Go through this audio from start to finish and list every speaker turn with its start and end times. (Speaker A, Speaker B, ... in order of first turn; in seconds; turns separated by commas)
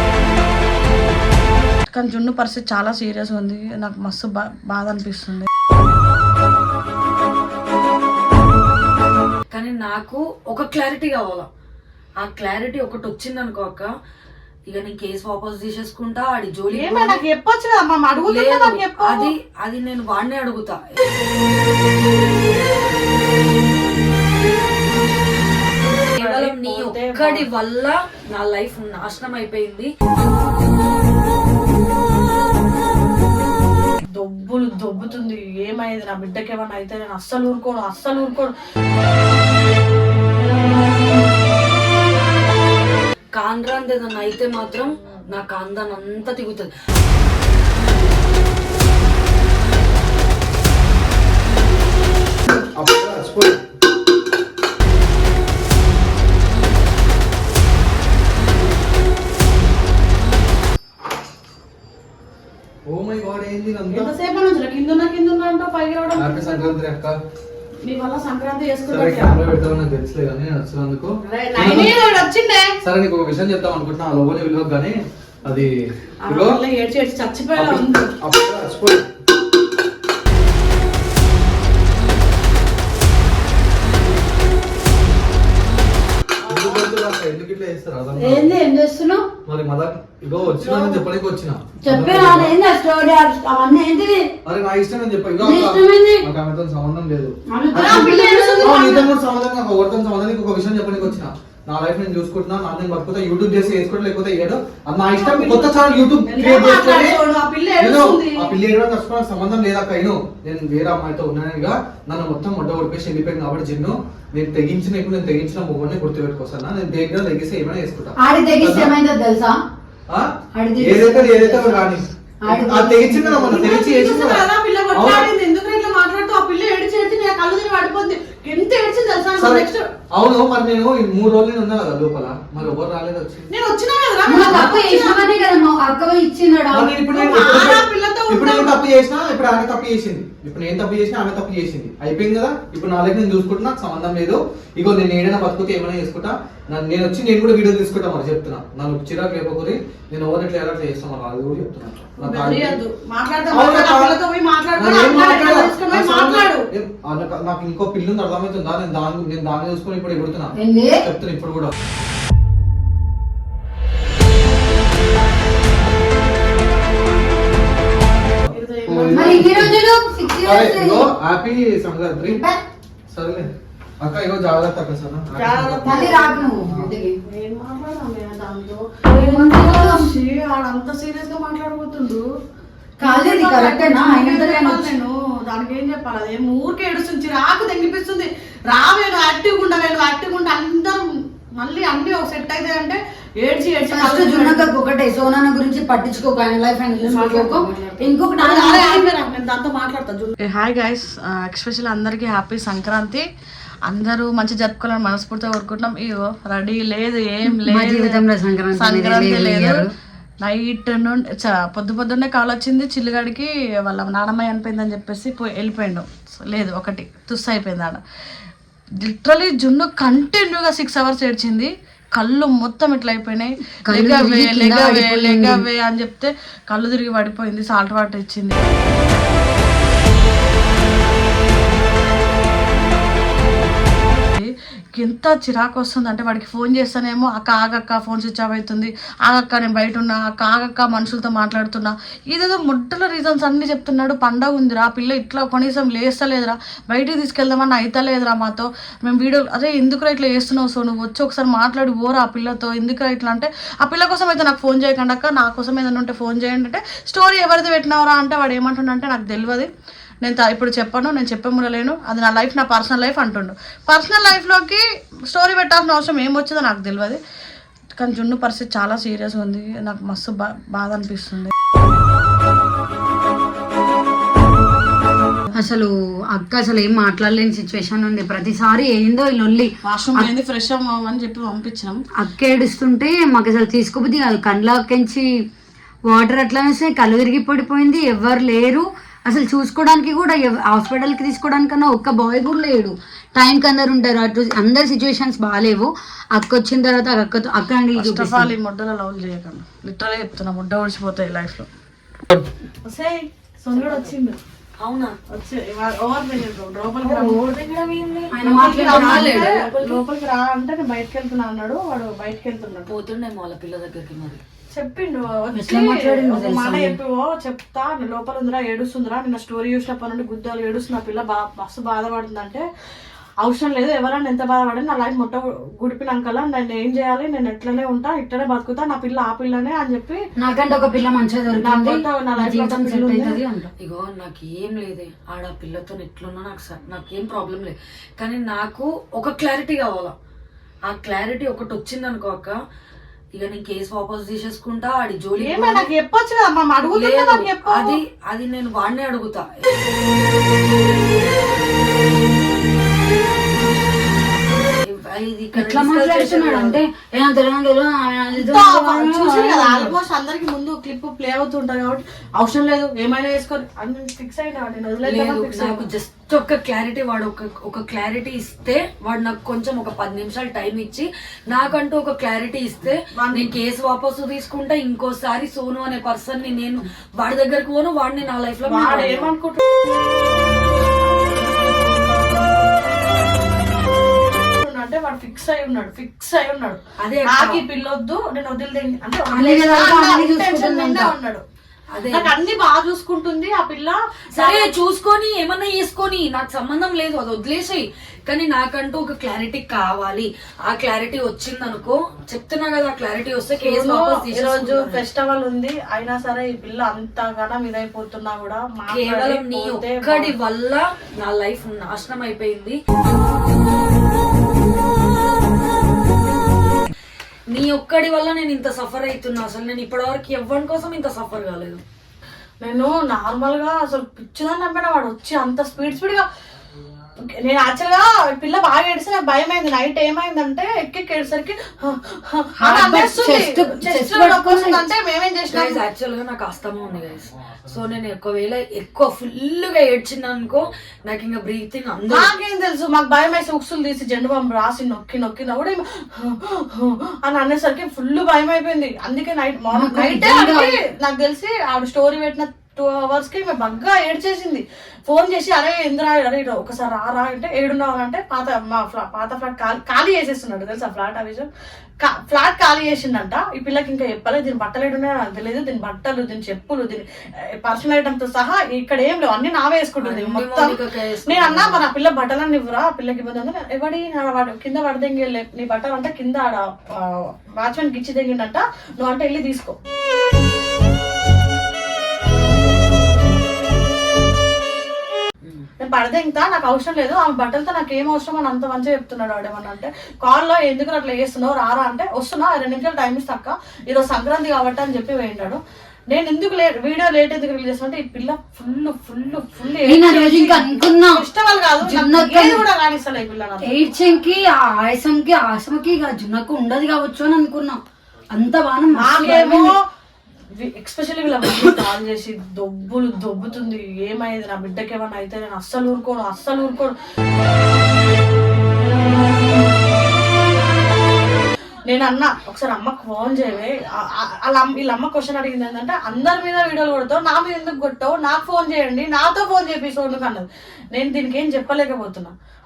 Speaker A: 1.9-5.5, Speaker B: 9.5-11.5, Speaker B: 12.2-13.9, Speaker B: 14.7-17.2, Speaker A: 16.7-19.3, Speaker B: 18.3-21.2, Speaker B: 26.1-29.9, Speaker A: 26.1-27.4, Speaker A: 34.1-38.5, Speaker B: 43.4-46.7, Speaker C: 52.7-53.6, Speaker C: 62.9-64.1, Speaker A: 63.9-66.8, Speaker C: 66.2-67.2, Speaker A: 67.8-69.4, Speaker C: 68.9-72.0, Speaker A: 71.2-72.8, Speaker C: 72.8-75.7, Speaker A: 76.2-78.1, Speaker C: 76.3-76.6, Speaker C: 77.5-79.1, Speaker A: 86.4-86.9, Speaker C: 86.5-88.6, Speaker D: 88.2-89.3, Speaker C: 89.5-92.5, Speaker D: 90.6-91.0, Speaker D: 91.8-94.3, Speaker C: 94.4-107.2, Speaker D: 95.4-96.3, Speaker D: 97.5-98.9, Speaker A: 97.7-99.1, Speaker A: 105.1-108.5, Speaker C: 107.8-118.9, Speaker D: 118.2-119.6, Speaker C: 120.1-125.3, Speaker D: 120.5-123.7, Speaker A: 123.5-129.9, Speaker C: 129.4-133.5, Speaker A: 133.5-135.4, Speaker D: 134.2-136.9, Speaker C: 134.5-134.8, Speaker C: 136.7-152.8, Speaker A: 137.1-138.7, Speaker A: 152.2-156.7, Speaker C: 153.5-154.2, Speaker C: 154.8-161.7, Speaker D: 160.6-161.1, Speaker A: 168.5-169.5, Speaker C: 168.9-169.7, Speaker D: 169.1-171.0, Speaker C: 170.4-172.4, Speaker D: 172.2-172.6, Speaker C: 173.1-173.5, Speaker C: 174.0-176.0, Speaker A: 175.3-176.5, Speaker D: 175.8-177.2, Speaker C: 176.6-176.9, Speaker A: 177.2-182.2, Speaker D: 179.1-180.1, Speaker A: 183.0-194.7, Speaker D: 183.0-184.9, Speaker D: 193.9-199.0, Speaker A: 197.0-203.2, Speaker A: 203.9-209.8, Speaker D: 207.5-209.9, Speaker A: 210.4-218.0, Speaker A: 219.0-228.6, Speaker D: 223.9-225.6, Speaker A: 234.3-259.7, Speaker A: 260.2-267.2, Speaker A: 268.0-271.5, Speaker D: 275.5-280.3, Speaker A: 279.8-282.0, Speaker D: 282.2-285.3, Speaker D: 286.1-298.5, Speaker A: 297.9-301.7, Speaker A: 302.8-304.4, Speaker B: 303.7-304.1, Speaker B: 304.8-305.2, Speaker A: 305.3-307.5, Speaker B: 307.1-310.0, Speaker D: 308.3-309.6, Speaker A: 308.4-312.9, Speaker B: 312.9-314.4, Speaker A: 314.7-322.6, Speaker D: 315.5-317.0, Speaker A: 323.4-330.2, Speaker D: 330.4-333.7, Speaker A: 331.5-333.4, Speaker B: 333.8-340.1, Speaker B: 340.9-342.6, Speaker B: 343.4-345.9, Speaker A: 345.4-348.0, Speaker B: 346.9-349.8, Speaker B: 354.7-356.8, Speaker D: 355.5-359.9, Speaker A: 358.4-365.9, Speaker B: 365.0-379.3, Speaker A: 373.1-373.5, Speaker A: 378.6-379.6, Speaker A: 384.5-391.4, Speaker B: 387.0-387.6, Speaker D: 389.3-391.1, Speaker B: 391.9-392.3, Speaker A: 392.1-394.7, Speaker B: 394.3-405.0, Speaker A: 403.6-410.3, Speaker B: 408.9-412.8, Speaker B: 417.5-421.8, Speaker A: 422.6-426.2, Speaker A: 427.4-435.8, Speaker D: 432.6-434.9, Speaker B: 435.5-442.3, Speaker A: 442.1-461.5, Speaker D: 449.7-450.8, Speaker A: 462.0-479.8, Speaker B: 470.0-471.9, Speaker A: 485.8-503.7, Speaker D: 499.8-501.2, Speaker D: 501.8-502.6, Speaker D: 503.6-507.8, Speaker D: 508.3-509.7, Speaker A: 508.9-509.8, Speaker A: 510.6-516.9, Speaker A: 521.9-532.3